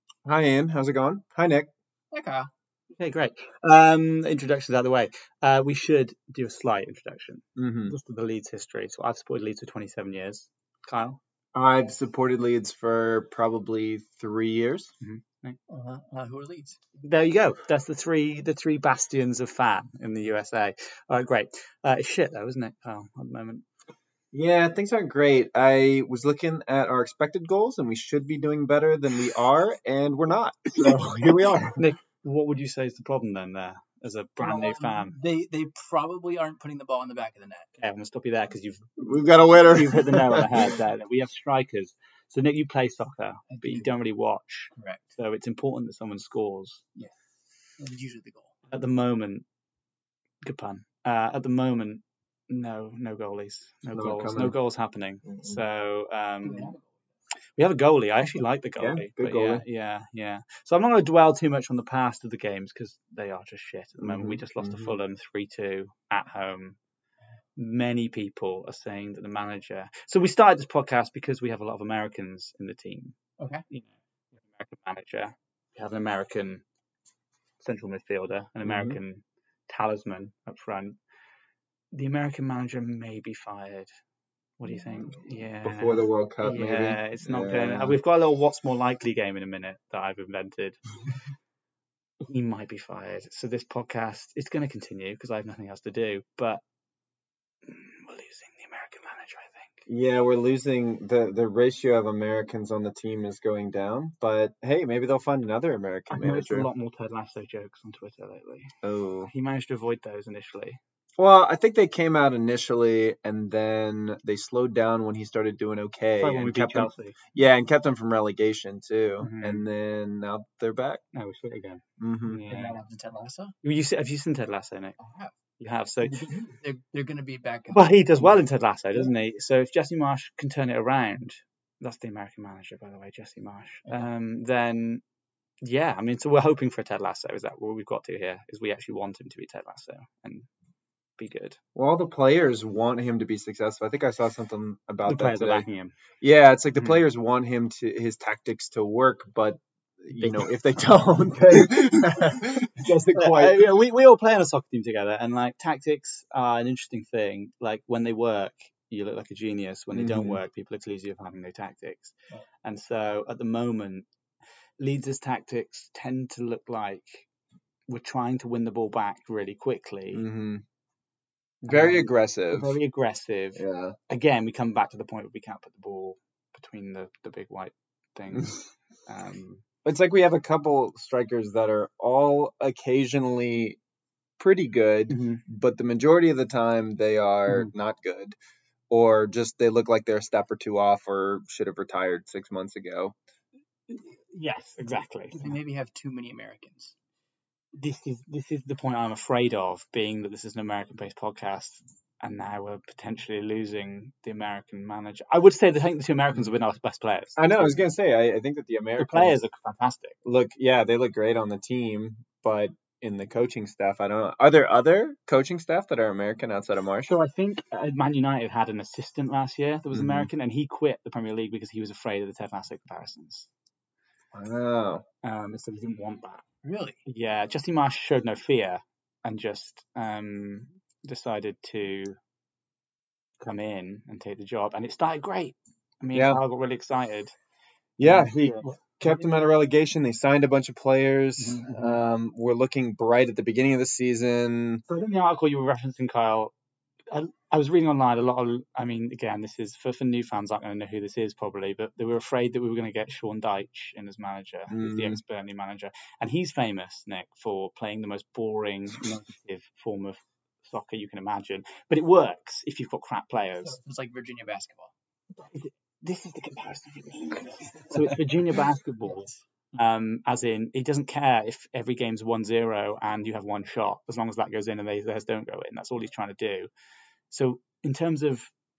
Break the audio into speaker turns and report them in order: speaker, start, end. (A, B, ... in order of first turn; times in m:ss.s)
0:00.2-0:01.7 A
0:02.1-0:02.5 B
0:03.0-0:11.2 C
0:07.6-0:08.0 A
0:11.5-0:14.9 A
0:15.0-0:15.6 C
0:15.7-0:16.8 B
0:17.0-0:23.6 C
0:24.3-0:31.8 A
0:30.8-0:35.2 C
0:34.4-0:37.7 B
0:37.8-0:38.9 C
0:39.0-0:40.7 A
0:39.6-0:46.8 C
0:43.5-0:43.9 B
0:44.7-0:45.1 B
0:47.8-0:48.6 B
0:48.7-0:49.4 C
0:50.4-0:56.7 C
0:53.9-0:54.6 A
0:55.2-0:55.6 A
0:56.4-0:56.8 B
0:57.6-1:06.8 C
0:58.8-0:59.6 A
1:04.0-1:04.9 A
1:07.6-1:13.2 C
1:13.4-1:13.6 B
1:13.7-1:16.6 C
1:17.6-1:21.0 C
1:18.6-1:19.0 A
1:21.9-1:23.9 C
1:24.6-1:30.8 C
1:25.6-1:28.0 A
1:32.2-1:36.6 C
1:37.6-1:39.8 C
1:39.9-1:46.7 A
1:46.1-1:48.7 C
1:48.8-1:49.3 A
1:49.2-1:50.8 C
1:51.2-2:01.0 A
1:56.2-1:57.2 C
1:59.2-1:59.6 C
2:01.1-2:02.8 C
2:02.0-2:02.4 A
2:02.5-2:03.5 B
2:03.6-2:05.0 C
2:05.0-2:05.3 B
2:05.6-2:06.5 C
2:06.1-2:08.4 B
2:07.7-2:15.0 C
2:15.6-2:20.5 C
2:21.2-2:21.6 C
2:21.7-2:25.6 A
2:25.0-2:25.9 C
2:26.2-2:33.7 A
2:26.8-2:27.0 C
2:33.1-2:42.1 C
2:39.9-2:40.4 A
2:42.6-2:44.0 C
2:44.8-2:47.3 C
2:47.9-2:50.2 C
2:50.1-2:50.6 A
2:51.6-2:52.7 A
2:51.7-2:59.6 C
2:53.6-2:54.0 A
2:59.8-3:03.8 A
3:04.4-3:08.4 A
3:05.1-3:05.4 C
3:08.9-3:13.1 A
3:13.9-3:15.6 C
3:15.3-3:16.9 B
3:17.8-3:27.8 C
3:27.4-3:29.4 A
3:29.0-3:30.2 C
3:30.2-3:37.1 A
3:37.0-3:43.5 C
3:39.9-3:40.3 A
3:44.3-3:45.0 A
3:45.2-3:46.4 C
3:46.6-3:47.0 B
3:47.0-3:52.2 C
3:53.4-3:57.3 C
3:56.1-3:56.4 A
3:58.0-4:04.8 A
3:58.0-3:58.7 C
3:59.0-3:59.4 B
4:01.4-4:01.7 C
4:04.9-4:06.5 C
4:07.1-4:23.8 C
4:14.7-4:15.2 A
4:23.6-4:24.9 B
4:25.4-4:36.7 C
4:37.3-4:38.5 C